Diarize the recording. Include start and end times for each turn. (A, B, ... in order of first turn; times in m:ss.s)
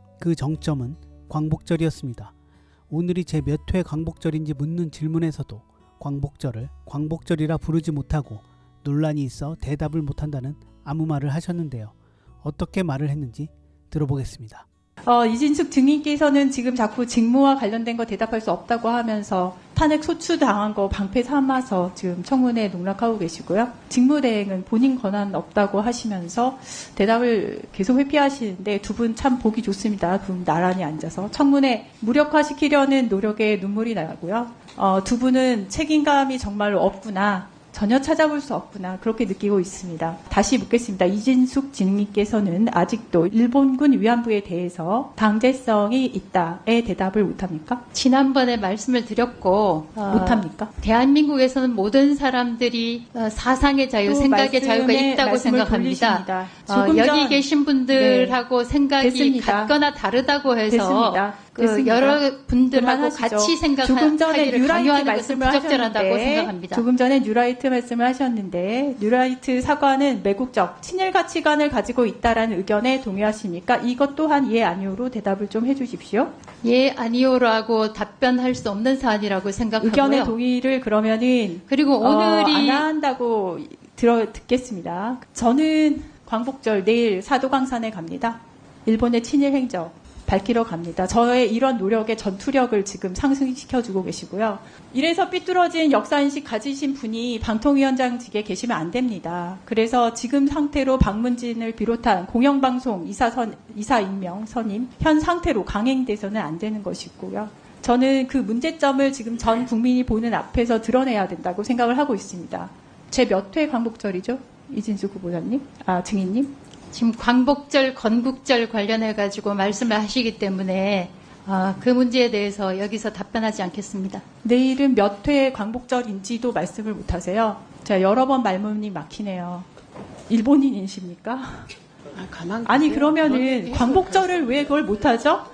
0:00.2-0:02.3 A
0:02.9-0:14.6 A
0:15.1-0:47.8 B
0:47.9-1:06.8 C
0:50.1-0:50.7 B
0:54.1-0:58.4 B
0:59.0-0:59.8 B
1:00.7-1:16.3 B
1:16.6-1:20.4 C
1:19.8-1:56.5 B
1:21.7-1:22.9 C
1:56.9-2:04.2 C
2:04.4-2:09.7 B
2:10.3-2:11.7 B
2:12.2-2:14.5 D
2:12.7-2:15.4 B